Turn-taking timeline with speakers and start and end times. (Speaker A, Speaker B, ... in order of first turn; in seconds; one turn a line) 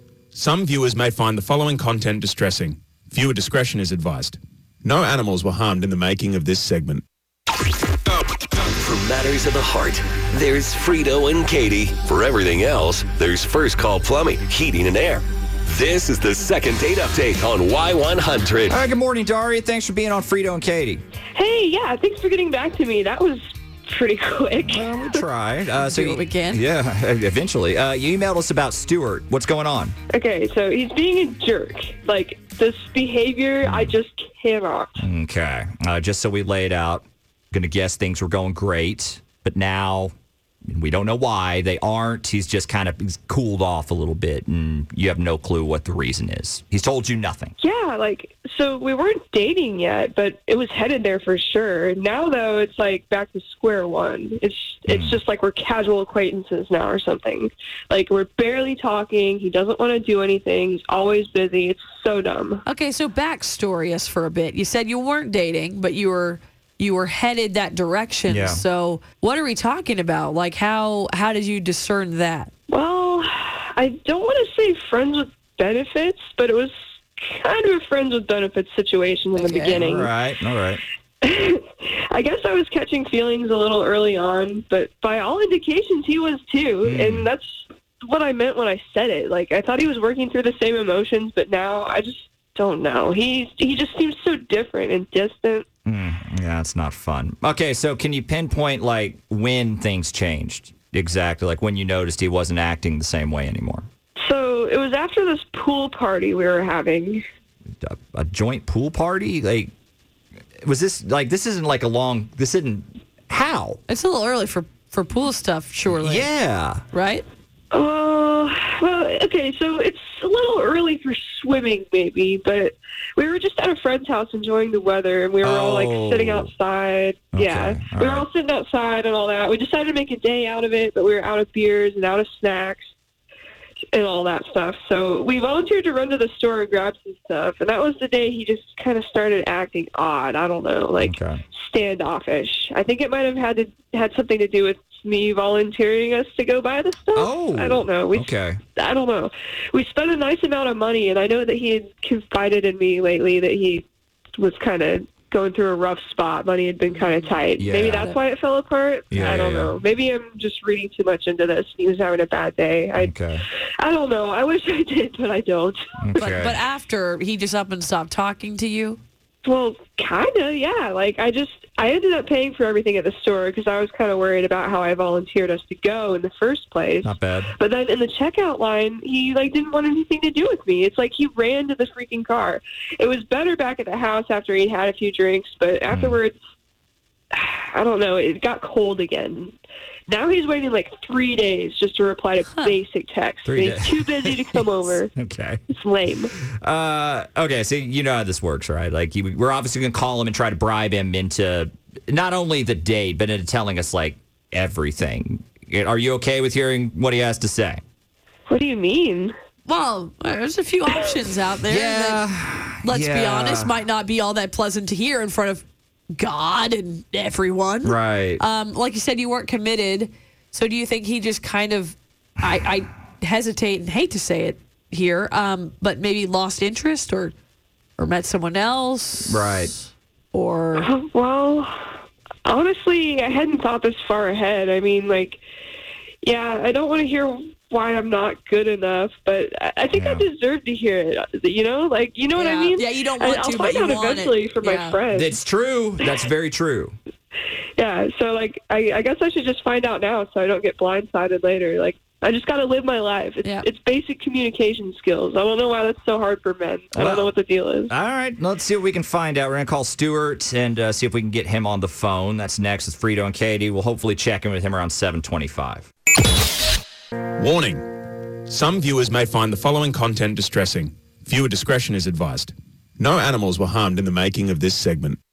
Speaker A: 0.3-7.0
Speaker B: 8.2-18.7
Speaker C: 18.7-21.0
Speaker D: 21.3-25.2
Speaker C: 24.6-29.9
Speaker E: 25.8-26.6
Speaker D: 30.1-35.0
Speaker C: 33.6-34.0
Speaker C: 35.0-40.1
Speaker C: 40.7-47.5
Speaker D: 47.6-62.6
Speaker C: 54.9-55.2
Speaker E: 62.6-72.5
Speaker C: 68.3-68.6
Speaker D: 72.7-80.1
Speaker E: 79.3-79.8
Speaker C: 79.8-80.8
Speaker D: 81.2-95.6
Speaker C: 86.8-87.3
Speaker C: 95.8-103.9
Speaker D: 104.2-107.2
Speaker C: 107.8-109.7
Speaker C: 110.6-113.8
Speaker E: 113.9-116.3
Speaker C: 115.8-116.8
Speaker E: 116.9-117.2
Speaker D: 117.7-132.9
Speaker C: 125.4-126.5
Speaker C: 127.3-128.2
Speaker D: 133.9-153.8
Speaker C: 141.0-141.4
Speaker C: 147.2-148.6
Speaker D: 154.4-163.2
Speaker C: 157.6-158.1
Speaker E: 157.8-158.2
Speaker C: 159.1-159.8
Speaker C: 163.0-163.4
Speaker D: 163.8-165.8
Speaker C: 166.0-166.6
Speaker E: 166.1-169.0
Speaker D: 169.4-186.3
Speaker C: 177.0-177.5
Speaker C: 185.9-186.2
Speaker D: 187.3-189.5
Speaker D: 190.1-195.1
Speaker C: 193.4-194.5
Speaker C: 195.1-195.6
Speaker D: 195.7-196.3
Speaker C: 196.6-207.8
Speaker D: 208.5-209.3
Speaker E: 209.7-212.3
Speaker C: 211.6-213.7
Speaker E: 212.8-227.3
Speaker C: 217.8-218.4
Speaker E: 228.0-229.4
Speaker C: 229.3-229.7
Speaker E: 230.3-230.9
Speaker D: 230.7-235.4
Speaker D: 236.2-245.4
Speaker C: 239.9-240.2
Speaker E: 242.3-245.0
Speaker C: 245.1-246.9
Speaker D: 247.8-257.9
Speaker C: 256.9-257.3
Speaker C: 257.9-265.9
Speaker A: 267.4-275.2